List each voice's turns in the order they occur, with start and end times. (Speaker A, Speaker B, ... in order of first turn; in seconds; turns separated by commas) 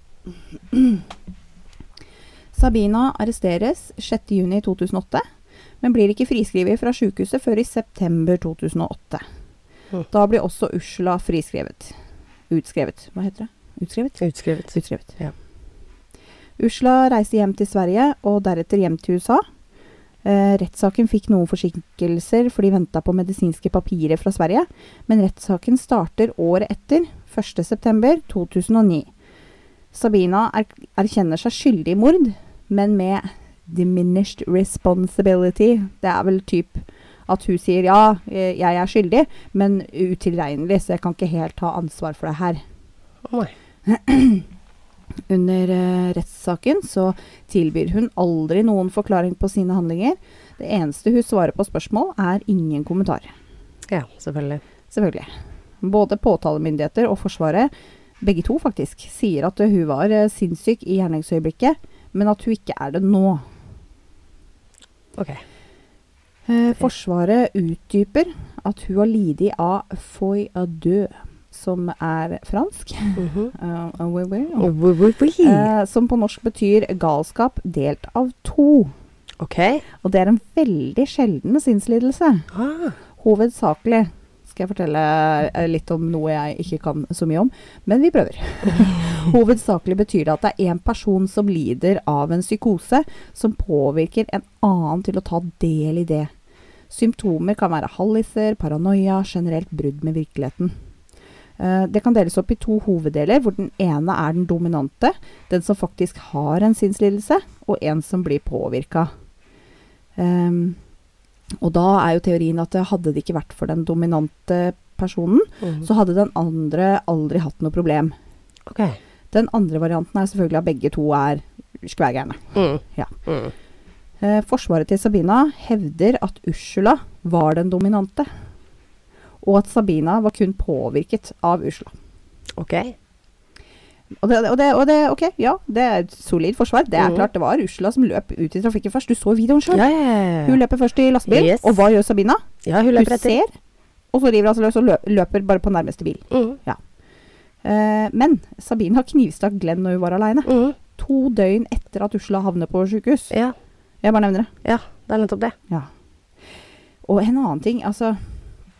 Speaker A: 0.7-1.0, Speaker A: 2.5-5.2, Speaker A: 5.8-9.2, Speaker A: 10.1-11.9, Speaker A: 12.5-15.2, Speaker B: 14.2-15.3, Speaker A: 16.6-19.4, Speaker A: 20.2-29.1, Speaker A: 29.9-42.6, Speaker B: 43.2-43.5, Speaker A: 43.9-44.4, Speaker A: 45.3-53.3, Speaker B: 53.9-54.6, Speaker A: 54.9-55.3, Speaker A: 55.8-63.4, Speaker B: 65.2-65.4, Speaker A: 66.5-74.7, Speaker B: 73.2-73.5, Speaker B: 74.6-75.7, Speaker A: 75.4-78.9, Speaker B: 79.4-79.8, Speaker A: 80.0-82.5, Speaker B: 82.5-83.0, Speaker A: 83.2-96.3, Speaker A: 96.9-100.7, Speaker A: 101.6-109.1, Speaker A: 110.2-110.8, Speaker A: 111.6-118.1, Speaker B: 118.7-119.0, Speaker A: 119.3-123.2, Speaker B: 122.5-123.5, Speaker A: 124.2-128.3, Speaker A: 129.4-131.9, Speaker B: 132.6-132.9, Speaker A: 134.2-139.9, Speaker B: 137.0-137.2, Speaker B: 139.7-140.6, Speaker A: 140.4-143.5, Speaker B: 141.3-141.8, Speaker B: 142.6-143.4, Speaker A: 144.1-146.8, Speaker B: 146.3-146.6, Speaker A: 147.6-153.3, Speaker B: 150.4-150.8, Speaker A: 154.0-154.5, Speaker B: 154.6-155.6, Speaker A: 157.0-158.2